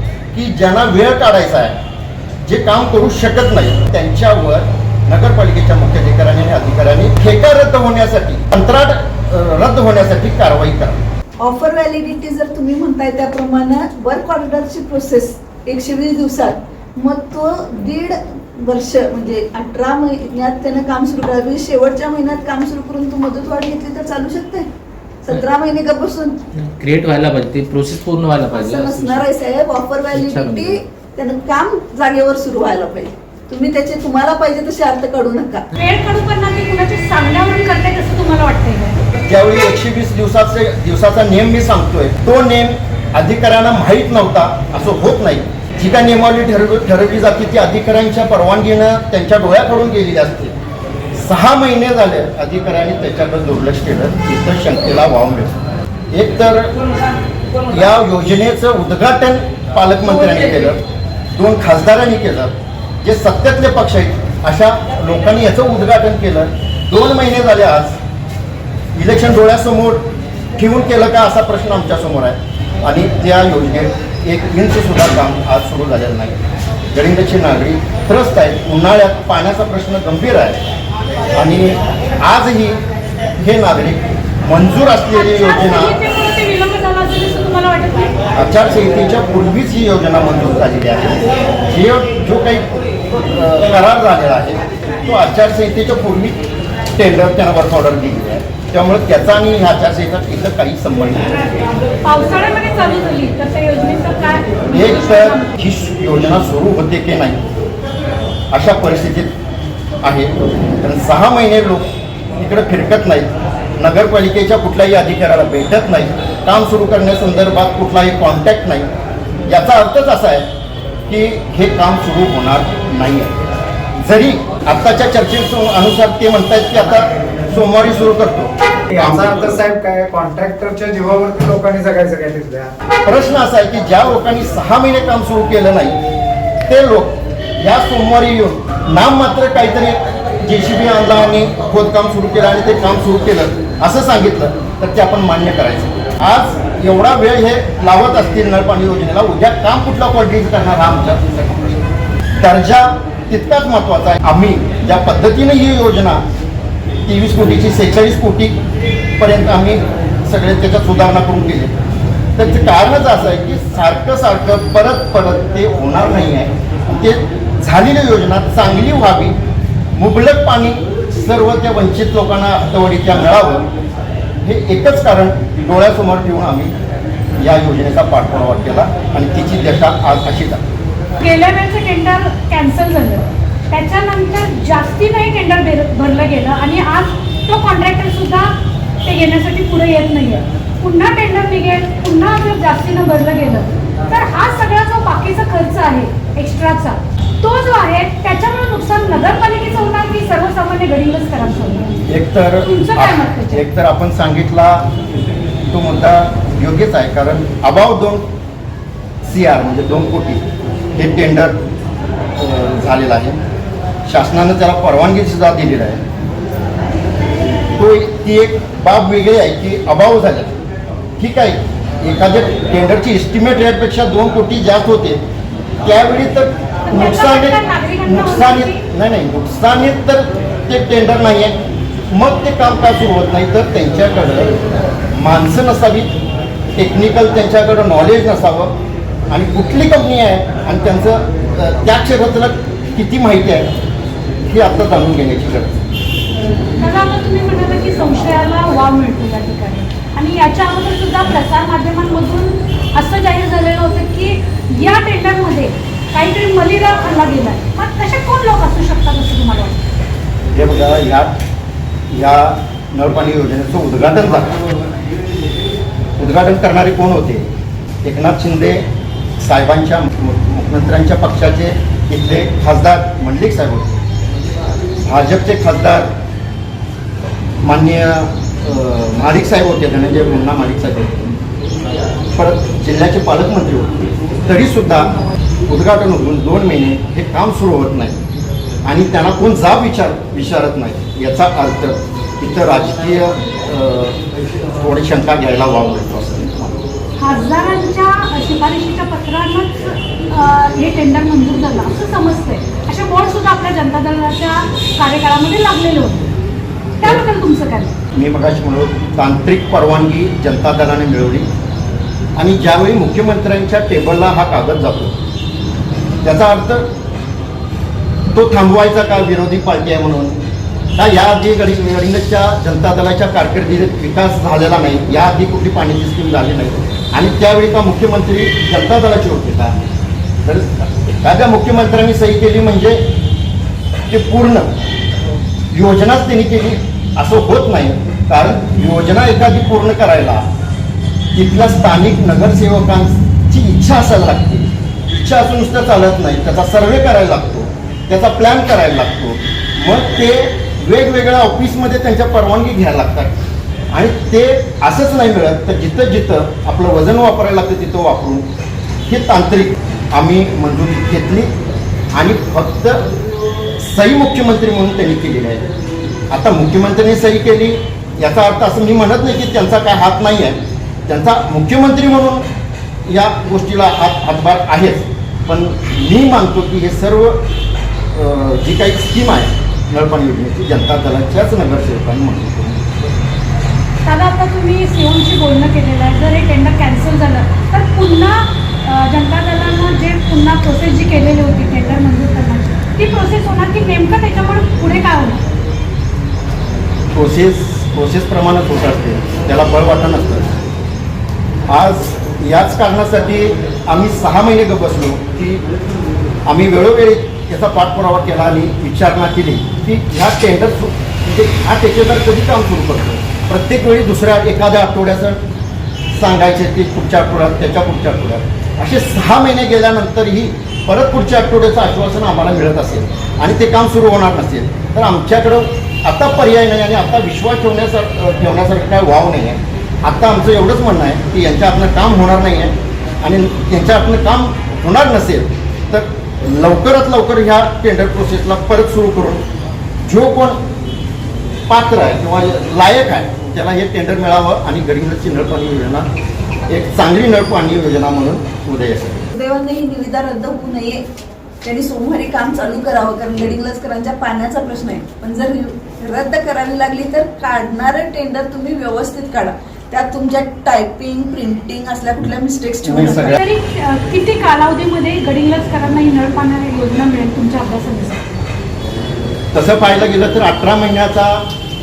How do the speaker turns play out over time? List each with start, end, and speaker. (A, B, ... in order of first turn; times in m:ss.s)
0:00.3-0:01.8 A
0:02.4-0:11.0 A
0:11.4-0:24.7 B
0:25.2-0:26.4 B
0:26.6-0:29.2 C
0:28.5-0:35.6 B
0:30.1-0:30.8 C
0:35.7-0:39.0 D
0:39.2-0:50.5 A
0:51.1-0:55.5 A
0:56.1-0:56.7 A
0:57.7-1:00.8 A
1:01.4-1:08.0 A
1:08.9-1:16.4 A
1:16.9-1:20.6 A
1:21.3-1:22.8 A
1:23.4-1:25.9 A
1:25.1-1:28.2 D
1:28.3-1:36.4 A
1:36.9-1:41.4 A
1:42.0-1:45.5 D
1:44.6-1:47.4 A
1:48.5-1:49.3 A
1:50.0-1:58.9 A
1:59.4-2:00.5 A
2:01.1-2:03.3 A
2:04.0-2:09.6 A
2:08.9-2:12.7 E
2:13.0-2:16.0 A
2:16.7-2:31.8 A
2:32.4-2:36.2 A
2:37.0-2:38.6 A
2:39.2-2:41.7 A
2:42.4-2:49.3 A
2:49.9-2:53.7 A
2:54.4-2:56.7 A
2:57.4-3:00.6 A
3:01.2-3:08.5 D
3:09.0-3:21.9 D
3:22.1-3:24.9 A
3:22.6-3:23.6 D
3:25.7-3:28.3 A
3:29.2-3:30.4 A
3:30.9-3:31.6 A
3:32.4-3:33.4 A
3:34.0-3:36.0 A
3:37.8-3:40.5 A
3:41.2-3:45.2 A
3:45.8-3:51.6 A
3:46.8-3:48.8 D
3:52.1-3:54.5 A
3:55.1-3:56.1 A
3:56.8-3:58.8 A
3:59.3-4:03.7 A
4:04.5-4:05.8 A
4:06.8-4:19.8 D
4:20.5-4:21.3 A
4:22.1-4:24.5 A
4:26.2-4:27.5 A
4:28.0-4:28.8 A
4:29.4-4:34.0 A
4:35.0-4:36.1 A
4:37.6-4:41.4 A
4:42.4-4:45.1 A
4:45.6-4:48.2 A
4:48.8-4:54.2 A
4:54.8-4:56.8 A
4:57.2-5:06.3 D
5:07.0-5:07.9 D
5:08.1-5:11.5 A
5:12.4-5:15.2 A
5:16.2-5:16.9 A
5:18.3-5:20.4 A
5:21.0-5:29.8 A
5:30.4-5:33.0 A
5:34.1-5:34.7 A
5:35.7-5:40.4 A
5:41.3-5:53.3 A
5:53.9-5:58.4 A
5:59.1-6:01.5 A
6:02.1-6:03.0 A
6:03.8-6:05.6 A
6:06.3-6:12.4 A
6:13.0-6:17.4 A
6:18.1-6:22.9 A
6:24.0-6:35.4 D
6:37.1-6:40.6 A
6:41.7-6:45.6 A
6:46.4-6:55.4 A
6:56.1-7:19.4 A
7:20.0-7:20.6 A
7:21.7-7:26.1 A
7:26.7-7:29.3 A
7:29.3-7:31.0 B
7:31.6-7:43.4 B
7:42.8-7:43.4 A
7:43.3-7:48.4 D
7:49.5-7:51.4 A